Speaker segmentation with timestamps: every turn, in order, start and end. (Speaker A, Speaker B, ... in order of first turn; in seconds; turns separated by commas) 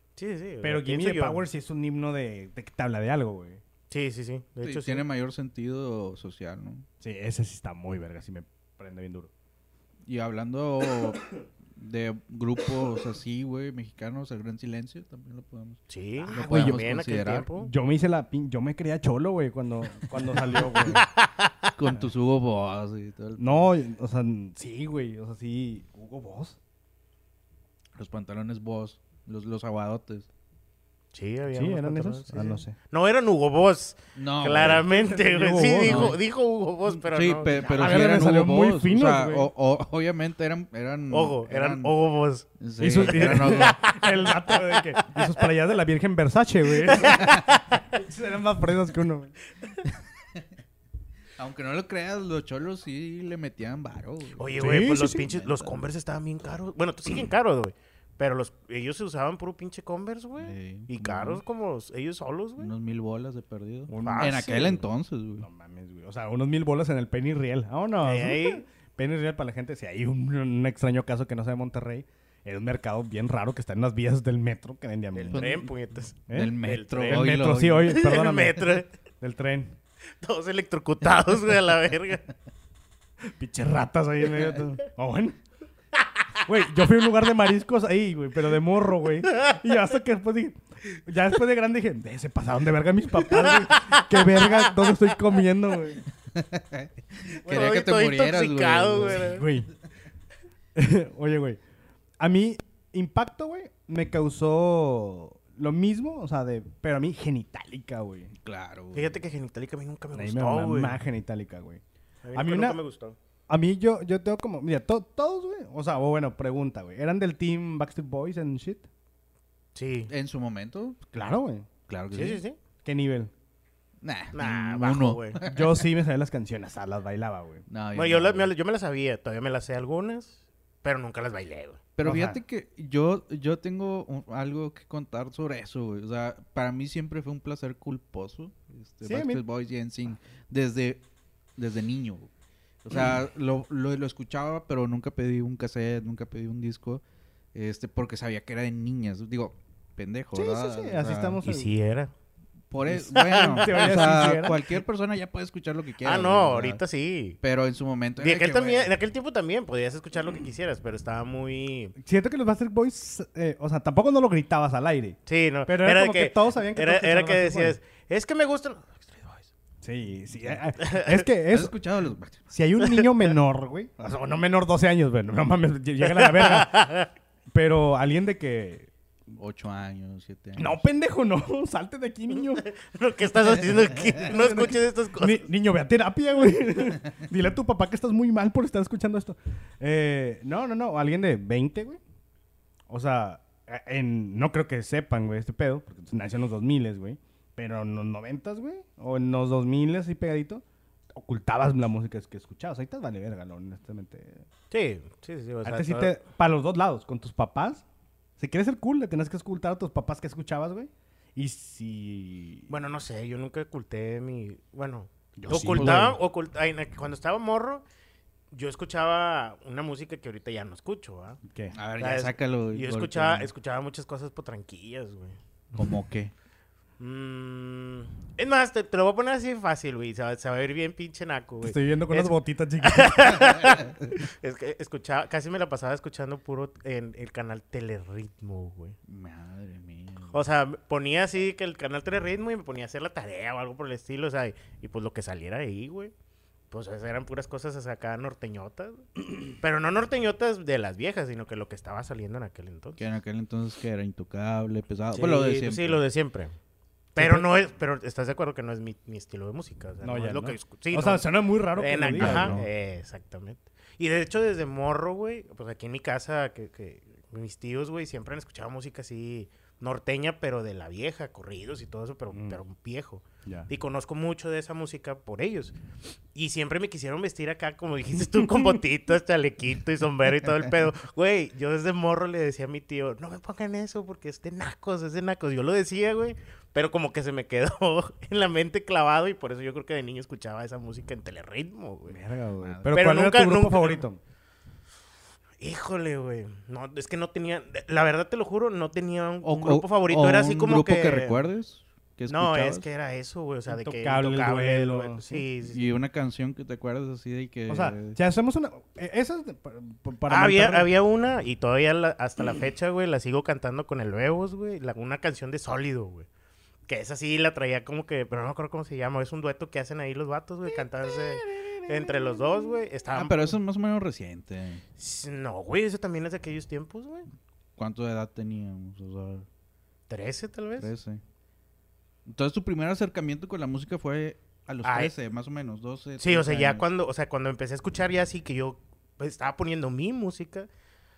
Speaker A: 0.2-1.4, Speaker B: 0.6-3.6, Speaker A: 3.9-5.0, Speaker C: 4.6-6.9, Speaker B: 7.0-9.3, Speaker C: 10.1-17.5, Speaker A: 15.9-17.7, Speaker B: 16.3-16.8, Speaker B: 17.6-21.1, Speaker A: 20.8-21.7, Speaker C: 21.8-23.7, Speaker B: 23.4-26.6, Speaker C: 27.9-30.3, Speaker A: 31.1-38.0, Speaker B: 31.5-32.8, Speaker C: 34.2-34.9, Speaker B: 34.6-36.2, Speaker C: 35.8-36.2, Speaker C: 37.0-42.0, Speaker B: 37.6-39.5, Speaker A: 41.1-45.3, Speaker C: 42.6-43.9, Speaker B: 42.8-49.4, Speaker A: 46.9-47.9, Speaker C: 51.4-55.8, Speaker A: 54.4-62.7, Speaker B: 54.6-55.3, Speaker C: 60.4-61.4, Speaker C: 62.6-65.5, Speaker B: 63.9-64.9, Speaker A: 64.0-64.5, Speaker B: 65.4-75.6, Speaker A: 68.0-68.6, Speaker A: 75.2-77.3, Speaker C: 75.2-78.0, Speaker B: 76.3-79.8, Speaker A: 77.9-78.9, Speaker A: 80.2-82.3, Speaker B: 83.2-85.4, Speaker B: 86.5-96.0, Speaker A: 93.4-94.7, Speaker C: 96.3-99.4, Speaker A: 97.3-99.4, Speaker B: 99.1-99.7, Speaker B: 100.8-101.6, Speaker B: 102.2-108.3, Speaker C: 108.4-109.2, Speaker A: 108.9-111.0, Speaker B: 110.1-111.8, Speaker A: 112.2-113.2, Speaker B: 112.3-112.8, Speaker B: 113.5-118.9, Speaker A: 119.8-120.1, Speaker C: 120.1-121.0, Speaker B: 121.1-121.7, Speaker C: 121.9-122.4, Speaker A: 122.1-122.6, Speaker B: 122.8-123.3, Speaker C: 124.0-125.8, Speaker A: 124.3-125.4, Speaker B: 125.5-127.7, Speaker C: 127.7-128.5, Speaker A: 127.9-131.8, Speaker C: 132.0-141.0, Speaker B: 132.0-132.4, Speaker B: 139.0-139.4, Speaker C: 141.6-142.3, Speaker C: 142.8-147.0, Speaker C: 147.5-151.4, Speaker B: 150.3-151.7, Speaker A: 151.4-152.1, Speaker C: 152.7-156.8, Speaker B: 152.9-154.6, Speaker A: 153.1-154.3, Speaker A: 156.0-157.4, Speaker C: 157.4-158.9, Speaker A: 158.2-161.9, Speaker B: 162.0-167.8, Speaker A: 165.3-169.5, Speaker B: 169.8-171.7, Speaker A: 170.8-171.1, Speaker C: 171.5-172.4, Speaker B: 172.5-176.9, Speaker A: 176.0-177.1, Speaker B: 177.5-178.9, Speaker C: 179.3-180.8, Speaker B: 180.6-182.7, Speaker A: 182.5-185.5, Speaker B: 184.2-192.0, Speaker B: 192.9-204.4, Speaker A: 204.7-206.2, Speaker B: 205.7-207.8, Speaker B: 208.4-212.7, Speaker A: 212.7-217.8, Speaker B: 215.4-216.2, Speaker C: 215.5-216.2, Speaker A: 218.5-221.4, Speaker B: 221.5-221.8, Speaker C: 221.8-223.5, Speaker A: 222.0-225.4, Speaker C: 225.8-226.3, Speaker A: 227.0-239.0, Speaker B: 231.6-233.4, Speaker C: 239.1-240.4, Speaker A: 240.3-246.1, Speaker A: 246.7-253.0, Speaker C: 253.0-256.0, Speaker A: 255.1-256.6, Speaker A: 257.1-275.7, Speaker B: 257.2-257.6, Speaker B: 260.0-262.6, Speaker C: 262.2-262.7, Speaker B: 272.3-272.6, Speaker B: 273.4-273.7, Speaker A: 276.3-292.2, Speaker B: 292.1-294.2, Speaker A: 292.9-294.0, Speaker A: 295.6-301.4, Speaker C: 299.4-302.9, Speaker A: 302.3-305.9, Speaker B: 303.7-305.4, Speaker C: 305.7-308.2, Speaker B: 307.7-310.9, Speaker A: 310.3-316.3, Speaker A: 316.9-323.6, Speaker B: 320.7-322.8, Speaker C: 323.1-324.8, Speaker A: 325.0-327.3, Speaker C: 327.8-329.5, Speaker A: 330.1-330.9, Speaker C: 330.8-331.2, Speaker C: 332.3-336.9, Speaker A: 334.8-335.1, Speaker A: 336.2-340.7